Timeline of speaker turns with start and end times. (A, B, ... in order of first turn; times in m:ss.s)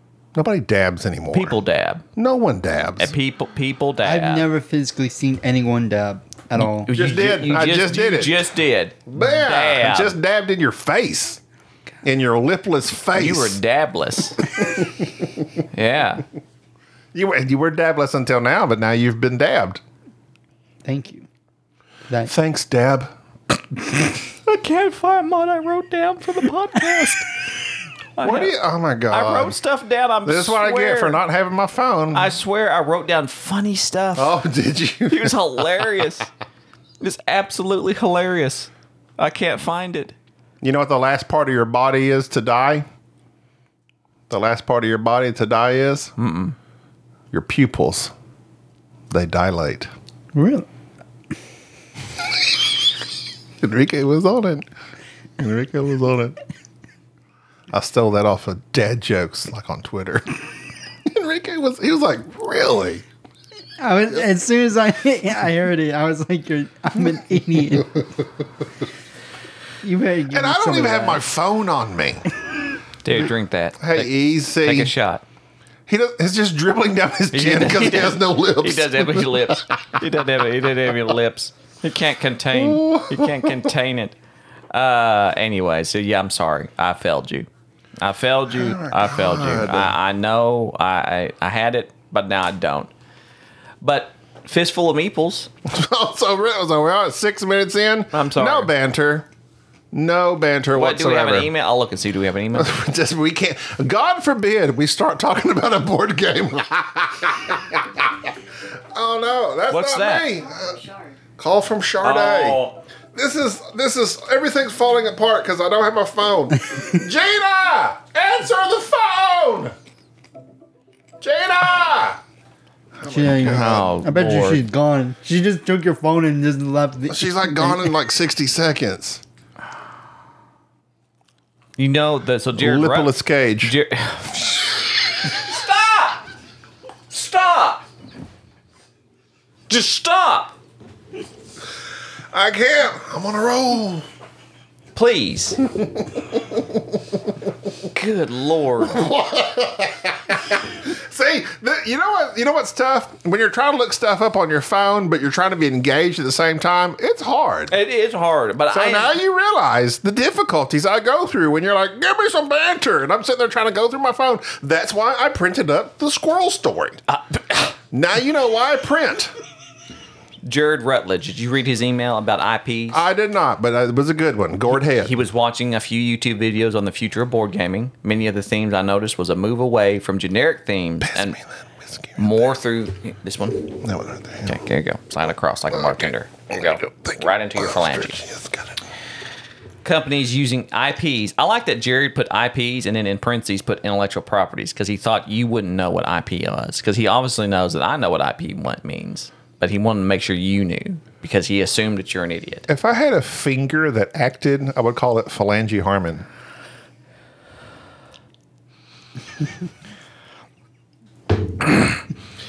0:00.4-0:01.6 A
0:01.3-0:02.0 B
0:02.2-0:03.1 A
0:03.0-0:04.5 B
0:04.0-0:06.9 C
0:06.6-0:10.2 B
0:06.9-0:08.5 A
0:09.1-0:11.4 A
0:12.0-0:13.6 A
0:13.2-0:14.4 B
0:14.5-0:15.2 A
0:15.7-0:16.2 B
0:17.1-0:19.8 A
0:20.8-0:21.3 C
0:22.3-0:23.1 A
0:24.4-0:27.3 B
0:28.2-0:28.6 B
0:28.2-0:29.6 A
0:29.1-0:31.2 B
0:30.2-0:32.3 A
0:32.1-0:34.4 B
0:34.2-0:35.6 A
0:35.1-0:36.3 B
0:37.0-0:40.2 B
0:40.6-0:42.9 A
0:44.3-0:46.1 A
0:46.2-0:46.6 B
0:47.3-0:48.1 A
0:49.1-0:49.9 A
0:50.3-0:50.7 C
0:53.6-0:54.7 A
0:55.4-0:56.4 A
0:57.7-1:00.4 A
1:01.0-1:03.0 A
1:03.8-1:08.1 C
1:09.8-1:11.2 C
1:10.3-1:12.3 A
1:13.0-1:14.1 B
1:13.8-1:14.9 A
1:14.6-1:15.2 B
1:15.9-1:19.6 A
1:17.3-1:24.2 B
1:22.5-1:23.7 A
1:24.7-1:27.5 B
1:28.0-1:32.9 B
1:28.5-1:29.9 A
1:33.8-1:35.5 B
1:35.7-1:39.3 A
1:38.1-1:38.7 B
1:39.9-1:41.5 A
1:40.8-1:42.7 B
1:42.5-1:48.3 A
1:48.9-1:50.8 A
1:49.7-1:50.3 B
1:51.4-1:52.6 A
1:52.0-1:52.8 B
1:53.1-1:59.7 A
2:01.2-2:02.2 A
2:03.0-2:03.9 A
2:03.0-2:07.9 C
2:03.4-2:04.6 B
2:07.1-2:09.2 A
2:11.8-2:16.2 B
2:12.6-2:13.8 A
2:17.1-2:17.9 B
2:19.7-2:20.6 B
2:22.3-2:24.1 A
2:25.0-2:25.6 B
2:25.7-2:27.2 A
2:27.9-2:29.1 B
2:28.8-2:37.7 A
2:37.7-2:39.2 B
2:38.7-2:47.0 A
2:47.1-2:47.8 B
2:47.9-2:49.3 A
2:50.4-2:53.0 B
2:52.9-2:55.2 A
2:54.9-3:01.4 B
3:01.0-3:02.5 A
3:02.2-3:03.8 B
3:03.8-3:04.6 A
3:04.4-3:08.2 B
3:05.7-3:08.8 A
3:09.8-3:22.7 B
3:22.7-3:26.3 A
3:31.6-3:32.0 B